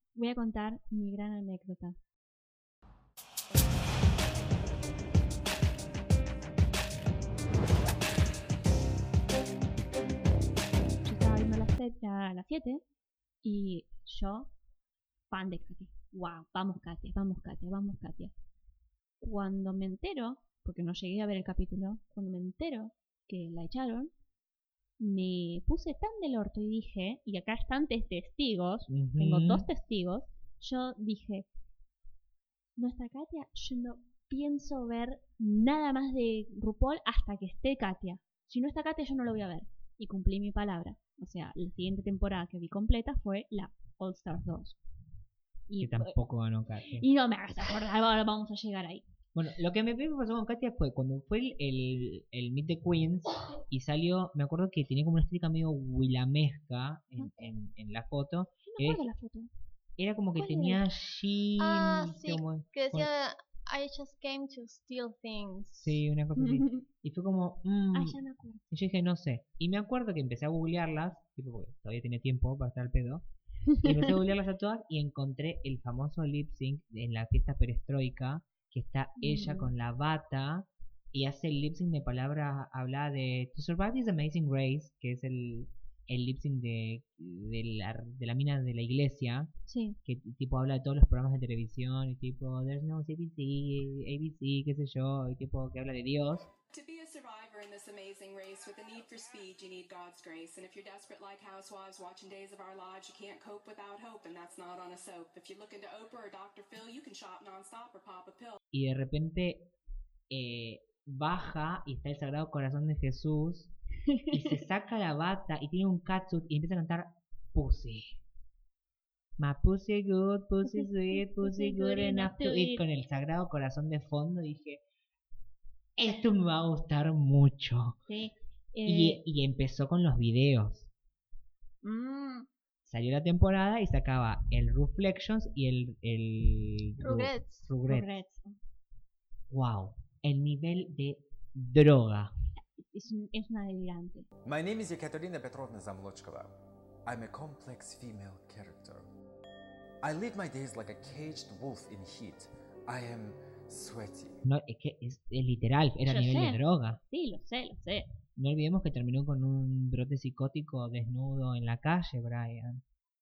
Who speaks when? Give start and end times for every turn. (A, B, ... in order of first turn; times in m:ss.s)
0:00.2-0:02.0 A
0:11.0-0:12.8 A
0:13.4-0:14.5 A
0:15.3-0:18.3 A
0:19.2-0:24.1 A
0:25.0-0:31.5 A
0:28.9-0:29.6 B
0:32.8-0:44.8 A
0:45.7-0:46.2 A
0:45.8-0:47.0 B
0:47.0-0:49.0 A
0:49.3-0:59.0 B
0:58.6-0:59.5 A
1:00.0-1:03.1 B
1:00.4-1:00.8 A
1:01.6-1:06.0 C
1:05.8-1:08.2 B
1:06.4-1:06.8 A
1:07.9-1:08.6 A
1:08.7-1:13.2 B
1:13.7-1:14.2 A
1:13.8-1:29.5 B
1:19.2-1:19.7 A
1:29.7-1:30.0 A
1:30.0-1:36.5 B
1:36.7-1:48.6 D
1:48.7-1:49.7 B
1:50.3-1:53.7 B
1:54.1-1:54.4 A
1:54.3-1:58.2 B
1:59.4-2:04.8 B
2:00.6-2:02.8 A
2:06.0-2:08.0 B
2:08.1-2:09.2 A
2:08.8-2:10.9 B
2:11.8-2:12.4 A
2:12.8-2:18.2 B
2:17.0-2:17.7 C
2:17.8-2:18.6 A
2:19.5-2:22.3 B
2:22.8-2:24.3 A
2:24.4-2:29.1 E
2:30.0-2:34.4 E
2:34.4-2:37.0 B
2:36.0-2:38.1 A
2:38.4-2:42.8 B